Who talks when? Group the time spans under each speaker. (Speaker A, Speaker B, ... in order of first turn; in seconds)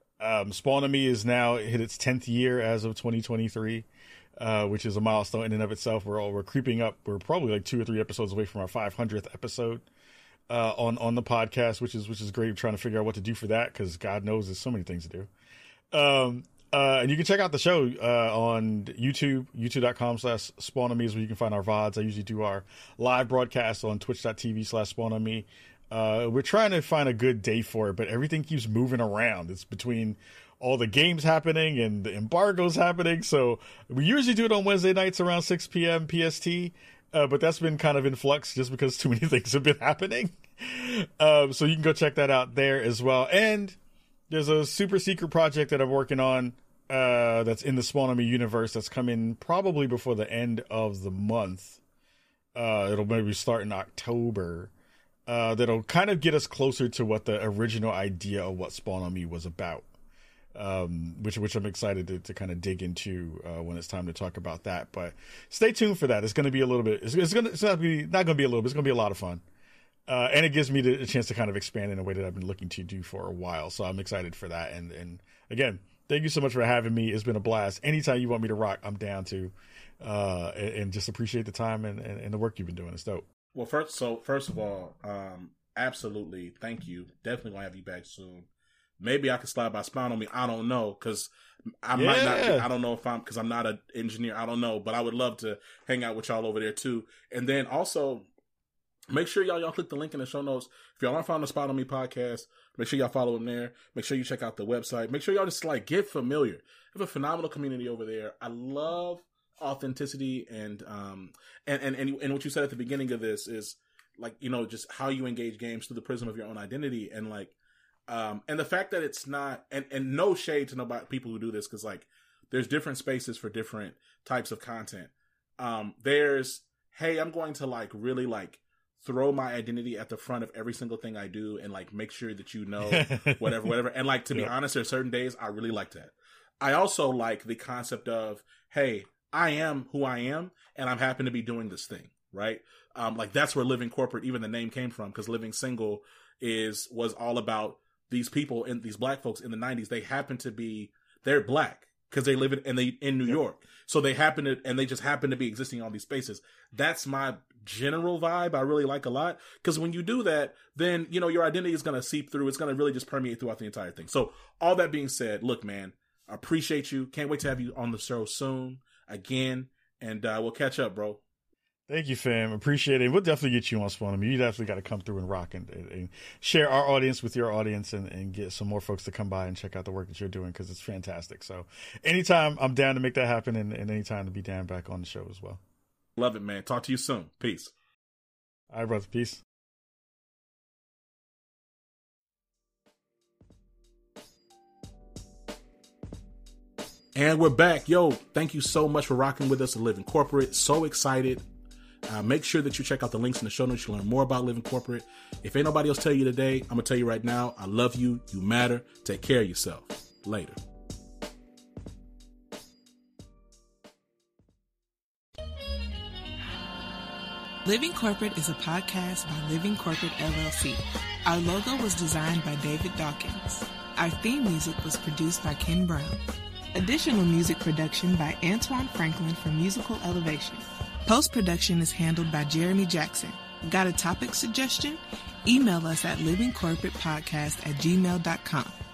Speaker A: 0.2-3.9, 4.4-9.8, 10.5-15.3, 15.9-43.8, 44.3-51.8, 52.5-54.7, 55.3-59.9, 60.5-69.4, 70.1-83.3, 91.9-92.7, 132.8-133.7, 171.9-185.6, 188.7-189.4
Speaker B: 83.5-88.5, 89.0-91.3, 91.8-98.2, 99.1-117.5, 118.1-171.2, 186.2-187.7, 197.1-201.4, 202.1-210.6
Speaker C: 217.6-226.2, 226.7-238.8